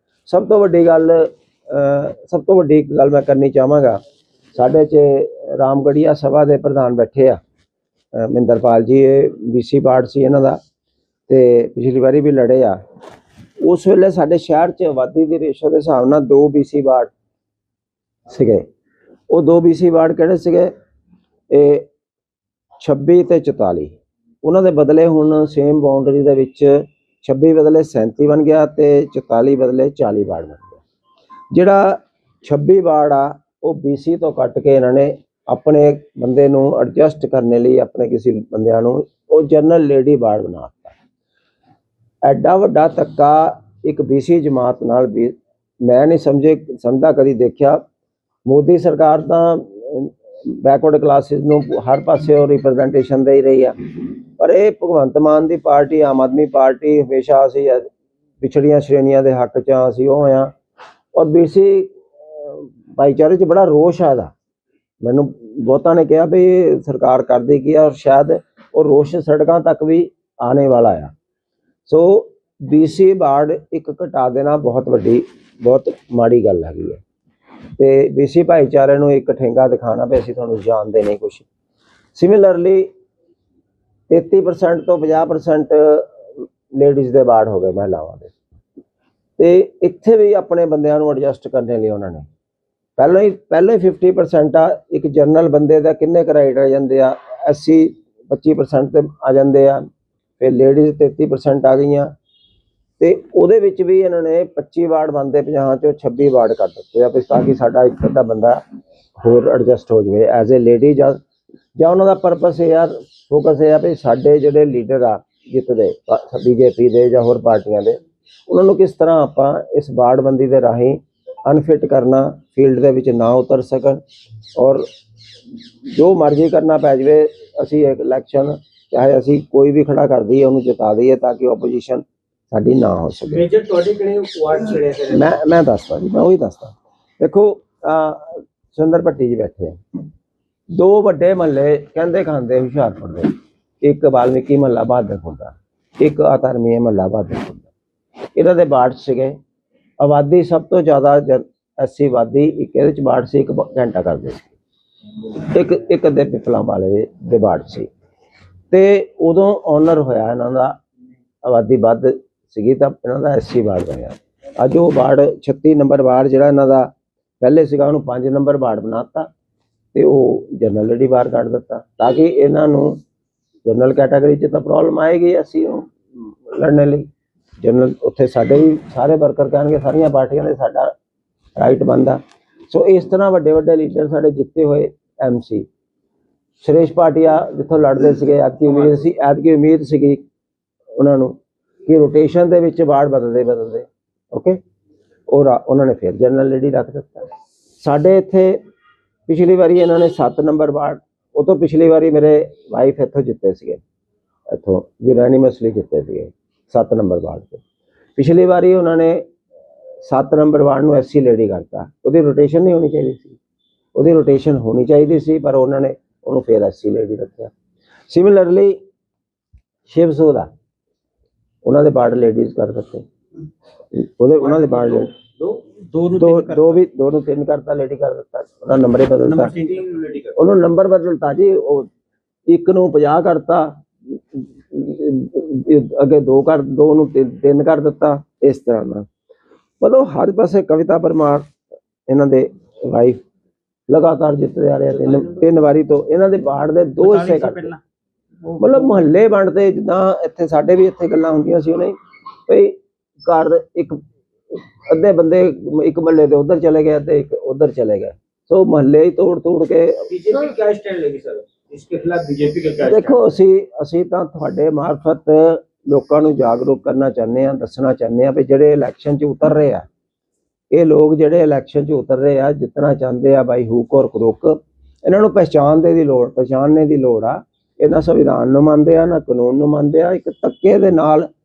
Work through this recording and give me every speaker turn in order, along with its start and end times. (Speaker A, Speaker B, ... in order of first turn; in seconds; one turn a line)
Speaker A: 0.3-4.0
Speaker A: 4.5-7.4
Speaker A: 8.2-10.6
Speaker A: 11.3-12.8
Speaker A: 13.6-17.1
Speaker A: 18.3-18.7
Speaker A: 19.3-20.7
Speaker A: 21.5-21.9
Speaker A: 22.8-30.8
Speaker A: 31.5-41.0
Speaker A: 42.2-47.8
Speaker A: 48.5-57.9
Speaker A: 58.4-60.5
Speaker A: 61.1-64.3
Speaker A: 65.0-71.1
Speaker A: 71.9-77.0
Speaker A: 77.8-81.5
Speaker A: 82.2-82.9
Speaker A: 84.1-88.3
Speaker A: 89.4-92.3
Speaker A: 93.0-99.9
Speaker A: 100.4-102.1
Speaker A: 103.0-108.6
Speaker A: 109.2-111.2
Speaker A: 111.8-124.0
Speaker A: 124.5-124.9
Speaker A: 125.9-133.5
Speaker B: 133.3-135.3
Speaker A: 135.1-139.8
Speaker A: 140.7-147.7
Speaker A: 148.3-149.4
Speaker A: 150.0-154.5
Speaker A: 155.3-157.9
Speaker A: 158.7-160.8
Speaker A: 161.4-166.9
Speaker A: 167.4-169.3
Speaker A: 169.9-173.0
Speaker A: 173.7-177.1
Speaker A: 177.6-180.9
Speaker A: 181.6-185.7
Speaker A: 186.6-190.2
Speaker A: 191.0-194.6
Speaker A: 195.3-197.3
Speaker A: 197.8-198.6
Speaker A: 199.3-203.8
Speaker A: 204.5-207.6
Speaker A: 208.2-209.2
Speaker A: 210.0-213.4
Speaker A: 213.9-217.5
Speaker A: 218.1-218.8
Speaker A: 219.9-220.5
Speaker A: 221.6-223.1
Speaker A: 223.9-225.1
Speaker B: 224.5-226.8
Speaker A: 226.2-229.5
Speaker B: 229.2-230.3
Speaker A: 230.3-231.9
Speaker A: 232.5-239.1
Speaker A: 239.8-241.5
Speaker A: 242.1-243.2
Speaker A: 243.9-247.8
Speaker B: 247.0-247.8
Speaker B: 248.5-248.7
Speaker A: 248.6-252.0
Speaker A: 252.5-254.0
Speaker A: 254.5-260.1
Speaker B: 260.1-263.2
Speaker A: 262.8-269.9
Speaker A: 270.7-281.3